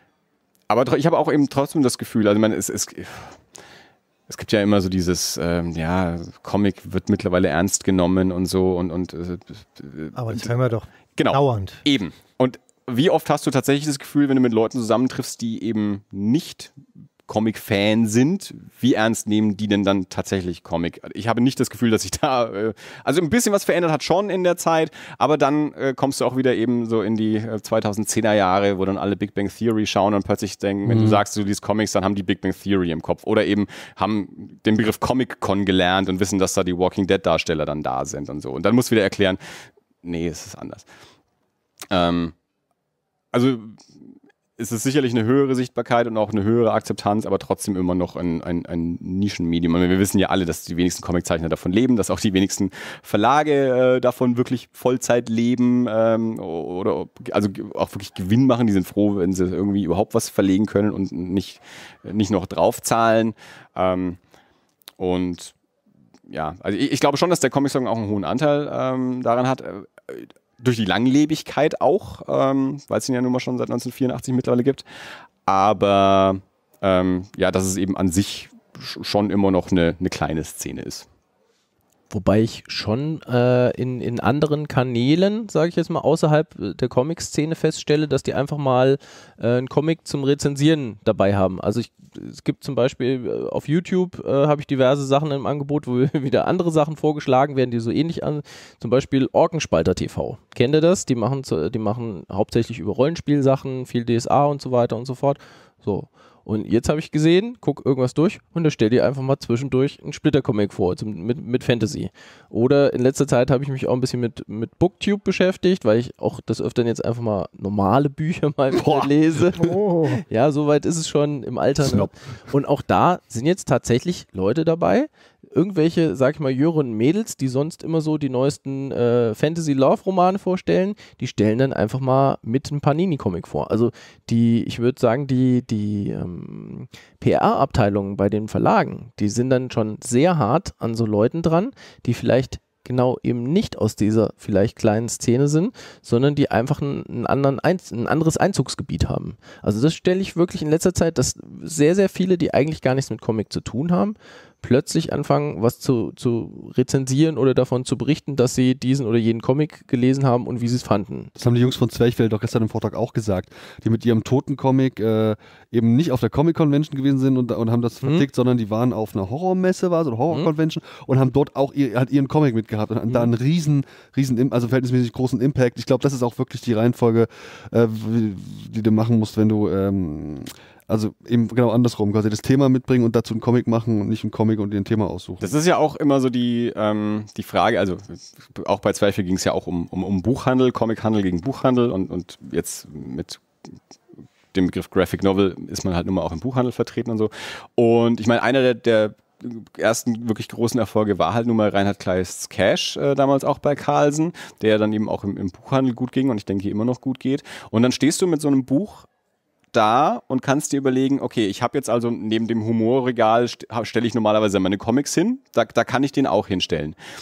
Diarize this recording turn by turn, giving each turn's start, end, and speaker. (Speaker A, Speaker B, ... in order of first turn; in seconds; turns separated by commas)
Speaker A: 0.7-3.4, Speaker A: 4.3-10.5, Speaker B: 10.1-11.8, Speaker A: 11.2-16.7, Speaker A: 17.3-40.9, Speaker C: 30.9-31.2, Speaker A: 41.9-42.3, Speaker A: 43.3-43.8, Speaker A: 44.6-64.2, Speaker A: 65.0-65.5, Speaker A: 66.3-74.8, Speaker A: 75.5-81.0, Speaker D: 82.1-161.3, Speaker C: 118.7-119.5, Speaker B: 119.6-120.2, Speaker C: 121.8-122.1, Speaker C: 161.3-185.5, Speaker D: 173.1-173.3, Speaker A: 185.4-193.4, Speaker A: 194.5-209.1, Speaker A: 209.7-216.9